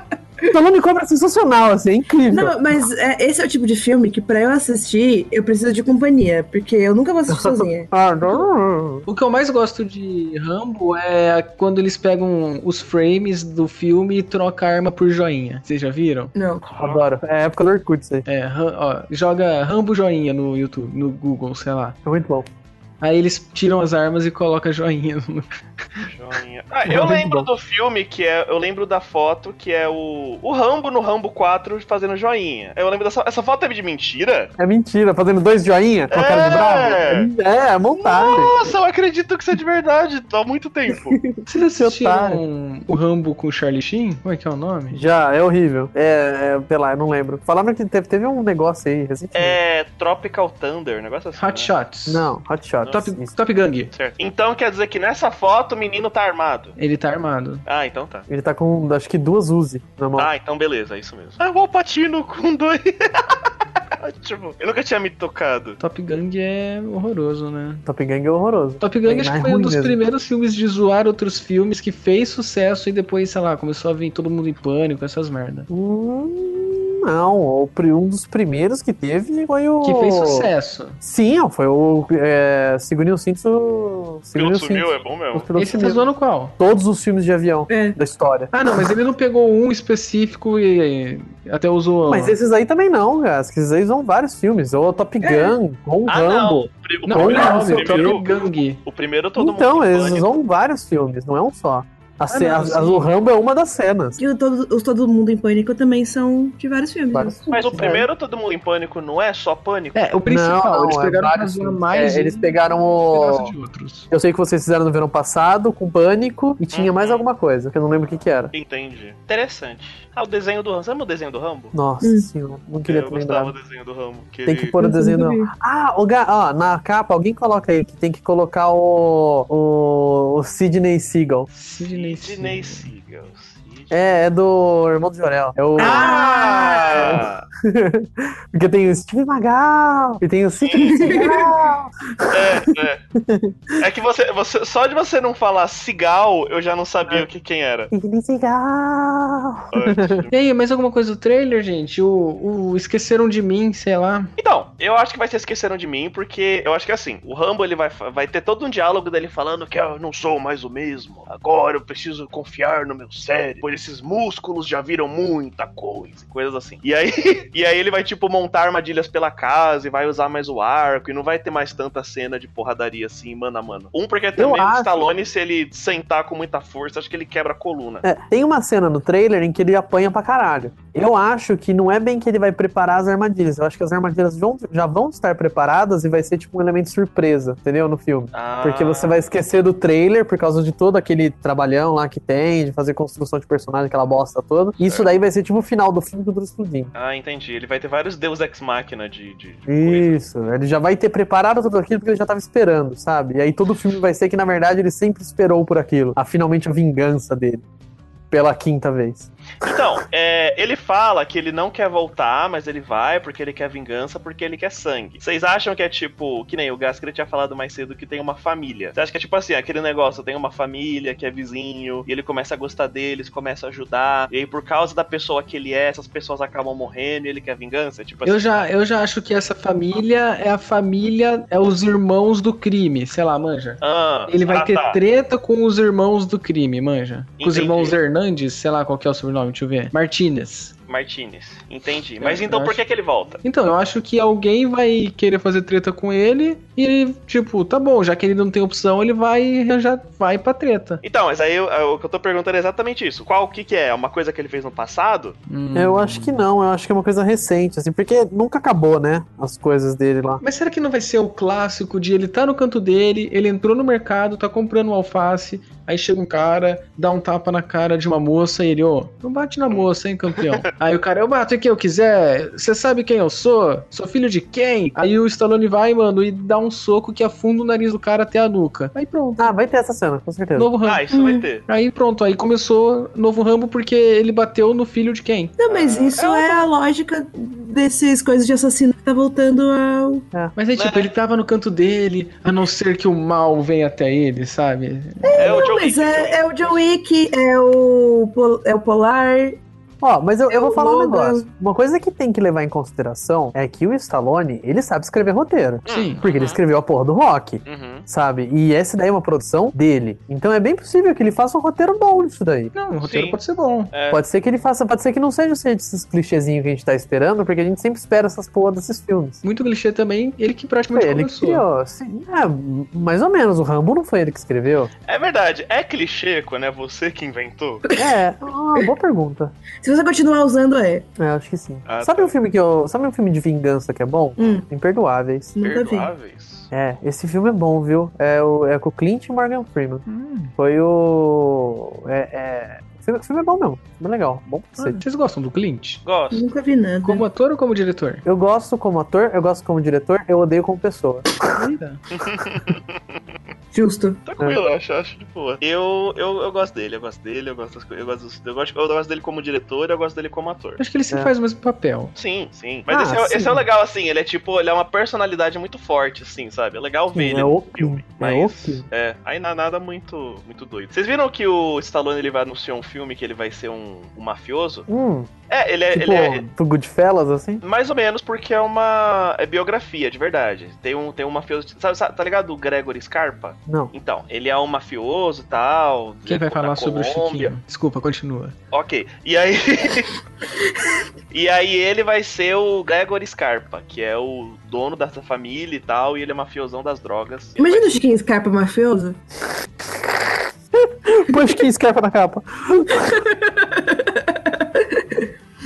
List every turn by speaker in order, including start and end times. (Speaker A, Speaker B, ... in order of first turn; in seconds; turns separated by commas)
Speaker A: 0.5-2.5, Speaker B: 2.3-8.4, Speaker A: 7.3-9.1, Speaker C: 9.1-16.3, Speaker B: 16.3-16.6, Speaker D: 16.7-17.0, Speaker A: 16.7-18.2, Speaker C: 18.2-22.0, Speaker A: 22.0-22.5, Speaker C: 23.0-26.1, Speaker D: 26.0-34.5, Speaker A: 26.9-27.5, Speaker A: 34.6-38.7, Speaker D: 36.1-37.3, Speaker D: 38.0-41.2, Speaker A: 41.1-42.4, Speaker C: 41.5-45.0, Speaker A: 44.9-49.6, Speaker D: 49.3-51.7, Speaker C: 51.4-52.3, Speaker A: 52.1-53.3, Speaker C: 52.9-53.9, Speaker D: 53.9-56.7, Speaker C: 56.8-57.6, Speaker D: 57.6-58.2, Speaker A: 58.3-60.3, Speaker D: 60.1-65.8, Speaker C: 65.8-67.8, Speaker A: 67.8-70.0, Speaker C: 68.8-75.7, Speaker A: 75.7-80.5, Speaker C: 79.8-81.0, Speaker A: 81.0-88.5, Speaker D: 84.3-85.5, Speaker C: 85.5-86.5, Speaker B: 87.7-88.0, Speaker C: 88.5-92.3, Speaker A: 92.0-98.1, Speaker B: 95.2-95.6, Speaker D: 96.1-100.3, Speaker C: 97.0-98.8, Speaker A: 99.4-104.2, Speaker C: 102.3-103.1, Speaker B: 104.2-108.0, Speaker A: 107.1-108.0, Speaker D: 107.5-110.1, Speaker C: 109.9-112.5, Speaker A: 110.2-113.5, Speaker C: 113.1-114.1, Speaker A: 114.1-118.5, Speaker D: 116.7-117.2, Speaker D: 118.5-121.7, Speaker A: 121.7-123.5, Speaker B: 122.0-122.3, Speaker D: 122.8-124.7, Speaker A: 124.5-131.5, Speaker B: 124.8-125.5, Speaker C: 131.5-132.9, Speaker D: 131.8-134.1, Speaker A: 133.9-136.2, Speaker D: 135.8-137.4, Speaker B: 135.8-137.2, Speaker A: 136.9-143.8, Speaker D: 140.6-141.3, Speaker B: 140.8-141.5, Speaker D: 142.3-143.0, Speaker D: 143.8-147.9, Speaker A: 147.9-150.2, Speaker D: 149.7-150.3, Speaker C: 150.3-154.3, Speaker D: 154.4-178.0, Speaker A: 174.4-175.1, Speaker A: 178.0-196.9, Speaker D: 188.3-189.2, Speaker D: 194.8-195.2, Speaker D: 196.9-200.2, Speaker A: 199.7-207.6, Speaker A: 208.3-209.8, Speaker D: 209.6-228.6, Speaker C: 228.2-240.7, Speaker D: 233.8-235.0, Speaker D: 237.4-237.9, Speaker D: 240.9-243.4, Speaker C: 242.2-242.8, Speaker C: 243.4-251.0, Speaker D: 251.0-255.4, Speaker C: 255.5-256.4, Speaker A: 255.7-260.4, Speaker C: 260.4-279.5, Speaker D: 269.7-270.6, Speaker A: 279.4-280.7, Speaker C: 280.6-281.1, Speaker D: 280.8-281.6, Speaker B: 281.1-281.4, Speaker C: 281.7-285.5, Speaker B: 285.6-290.2, Speaker D: 285.7-286.7, Speaker C: 290.6-295.4, Speaker D: 290.7-291.1, Speaker B: 295.2-299.6, Speaker D: 295.4-296.8, Speaker A: 300.0-312.7, Speaker B: 300.5-301.4, Speaker D: 305.9-306.6, Speaker C: 305.9-306.2, Speaker D: 307.6-308.0, Speaker C: 312.7-313.9, Speaker D: 313.0-313.4, Speaker D: 313.9-314.2, Speaker A: 314.1-319.4, Speaker C: 319.4-321.6, Speaker A: 320.9-324.9, Speaker D: 325.1-327.8, Speaker B: 327.9-328.1, Speaker A: 327.9-329.5, Speaker B: 329.8-331.1, Speaker A: 331.2-335.5, Speaker D: 331.9-332.3, Speaker B: 334.4-334.6, Speaker B: 335.6-336.1, Speaker D: 335.6-336.7, Speaker A: 336.7-340.0, Speaker C: 340.1-340.5, Speaker A: 340.6-345.0, Speaker C: 344.8-346.0, Speaker D: 346.1-346.4, Speaker B: 346.3-347.2, Speaker C: 347.0-348.2, Speaker A: 348.2-351.6, Speaker C: 351.5-352.0, Speaker D: 352.1-353.2, Speaker A: 352.4-352.7, Speaker B: 353.7-354.2, Speaker D: 354.2-360.8, Speaker C: 360.8-362.1, Speaker D: 362.1-374.9, Speaker A: 362.9-363.6, Speaker A: 367.1-368.9, Speaker A: 374.9-375.3, Speaker D: 375.5-376.5, Speaker A: 375.9-377.6, Speaker D: 377.6-387.5, Speaker A: 383.7-383.9, Speaker C: 386.3-388.6, Speaker D: 388.7-390.1, Speaker D: 391.3-398.0, Speaker B: 397.6-399.2, Speaker A: 399.9-403.2, Speaker B: 403.0-405.3